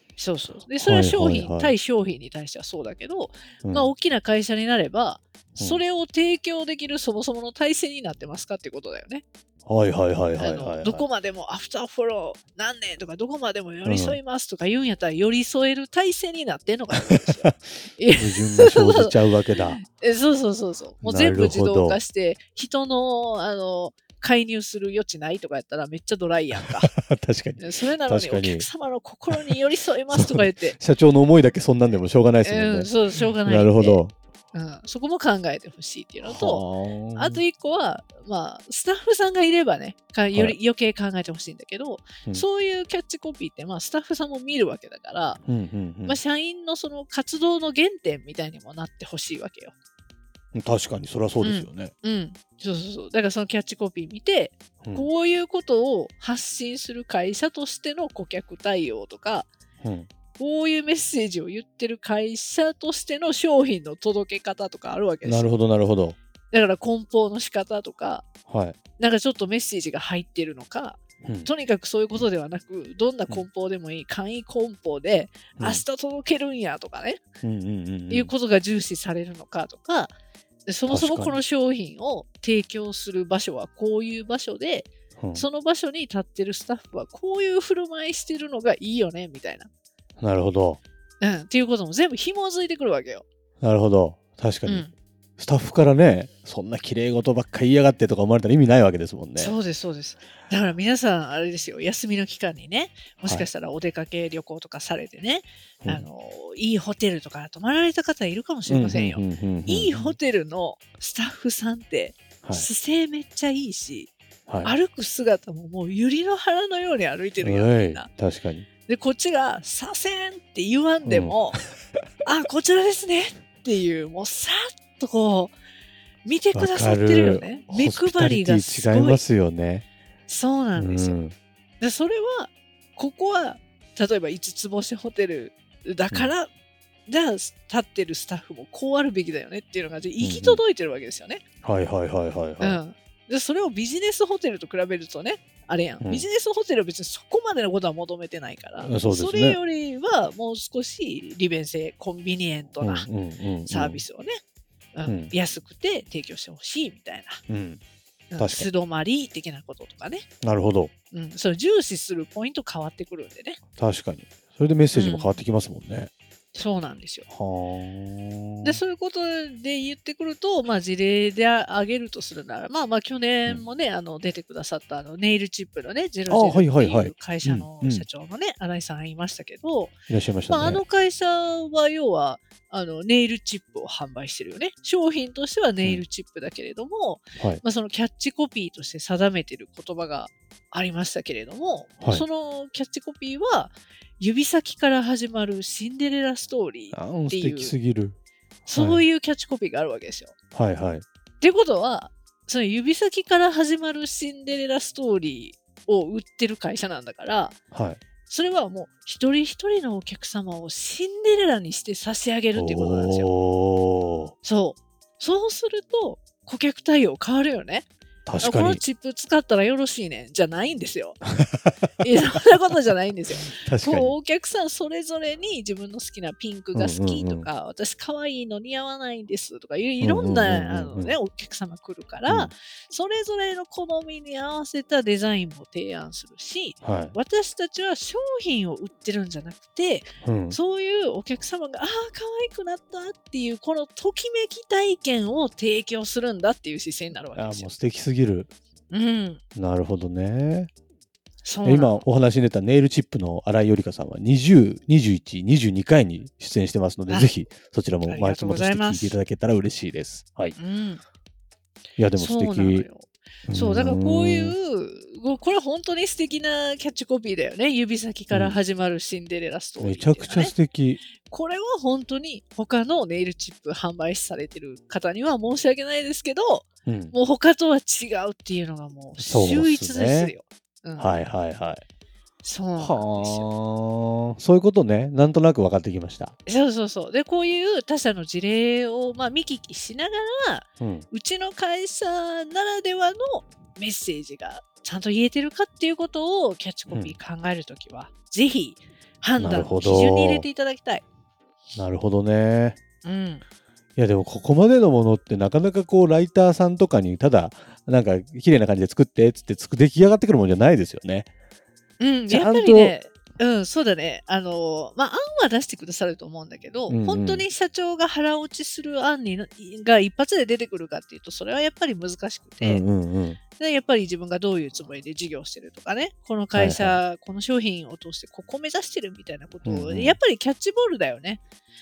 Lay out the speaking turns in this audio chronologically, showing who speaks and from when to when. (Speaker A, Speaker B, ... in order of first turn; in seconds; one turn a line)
Speaker A: 0.2-9.2
Speaker B: 0.8-1.7
Speaker B: 3.6-3.9
Speaker B: 9.7-11.1
Speaker A: 10.3-26.9
Speaker B: 13.8-14.2
Speaker B: 16.9-17.6
Speaker B: 18.1-19.8
Speaker B: 21.0-22.0
Speaker B: 26.5-28.7
Speaker A: 27.6-30.8
Speaker B: 29.3-29.6
Speaker B: 30.1-34.1
Speaker A: 32.4-34.0
Speaker A: 34.5-45.4
Speaker B: 36.2-37.4
Speaker B: 45.4-46.2
Speaker A: 46.0-49.7
Speaker B: 50.5-51.9
Speaker A: 51.4-59.5
Speaker B: 54.8-55.1
Speaker B: 59.8-60.1
Speaker A: 60.4-65.5
Speaker B: 65.2-66.2
Speaker A: 66.5-68.2
Speaker B: 68.5-68.8
Speaker A: 69.0-77.2
Speaker B: 71.2-71.5
Speaker B: 75.6-75.8
Speaker B: 77.4-78.3
Speaker A: 78.1-80.1
Speaker A: 80.7-89.7
Speaker B: 80.9-81.4
Speaker B: 85.2-85.5
Speaker B: 90.2-90.8
Speaker A: 91.2-93.2
Speaker B: 93.6-94.8
Speaker A: 94.7-94.9
Speaker B: 95.4-99.5
Speaker A: 99.4-114.1
Speaker B: 108.7-110.2
Speaker B: 112.4-112.7
Speaker B: 114.5-114.7
Speaker A: 114.6-118.1
Speaker B: 117.4-118.7
Speaker A: 118.8-121.6
Speaker B: 121.0-121.3
Speaker A: 122.2-125.5
Speaker A: 126.2-129.2
Speaker B: 126.5-129.8
Speaker A: 130.3-131.2
Speaker B: 130.8-131.3
Speaker A: 131.8-136.5
Speaker A: 137.1-141.4
Speaker B: 140.2-140.6
Speaker B: 141.6-142.8
Speaker A: 142.6-153.1
Speaker B: 148.8-149.6
Speaker B: 152.8-154.0
Speaker A: 153.7-154.4
Speaker A: 154.9-157.4
Speaker B: 155.0-155.3
Speaker B: 157.5-157.8
Speaker A: 158.3-160.3
Speaker B: 158.4-158.7
Speaker B: 160.4-160.9
Speaker A: 161.1-163.6
Speaker B: 163.8-166.1
Speaker A: 164.9-165.4
Speaker A: 166.5-167.2
Speaker B: 167.3-168.8
Speaker A: 168.6-179.9
Speaker B: 176.3-178.1
Speaker B: 180.1-180.8
Speaker A: 180.5-197.7
Speaker B: 196.9-198.2
Speaker A: 198.7-200.3
Speaker B: 198.7-199.0
Speaker B: 200.5-201.0
Speaker A: 201.4-207.6
Speaker B: 207.7-208.0
Speaker A: 208.2-213.3
Speaker B: 212.5-214.3
Speaker A: 214.4-217.9
Speaker B: 218.3-218.8
Speaker A: 218.4-221.2
Speaker B: 221.3-221.8
Speaker A: 222.0-247.7
Speaker B: 223.5-224.1
Speaker B: 226.7-227.5
Speaker B: 230.0-231.1
Speaker B: 236.8-237.2
Speaker B: 240.2-240.6
Speaker B: 247.3-248.5
Speaker A: 248.9-249.4
Speaker B: 249.6-250.7
Speaker A: 251.4-252.0
Speaker B: 251.6-260.6
Speaker A: 258.1-259.2
Speaker A: 260.6-261.0
Speaker B: 262.0-262.9
Speaker A: 262.1-270.5
Speaker B: 263.5-264.5
Speaker B: 268.3-268.6
Speaker B: 269.8-271.0
Speaker A: 271.2-281.3
Speaker B: 276.9-277.1
Speaker B: 279.2-280.3
Speaker B: 281.0-281.8
Speaker A: 282.4-283.5
Speaker B: 282.8-286.3
Speaker A: 286.4-301.0
Speaker B: 290.8-291.1
Speaker B: 296.9-297.1
Speaker B: 299.4-300.4
Speaker B: 301.7-302.8
Speaker A: 303.0-303.4
Speaker B: 304.0-311.3
Speaker A: 312.0-322.8
Speaker B: 312.3-312.9
Speaker B: 316.9-317.4
Speaker B: 322.6-323.4
Speaker A: 323.5-331.4
Speaker B: 326.5-327.0
Speaker B: 329.6-330.2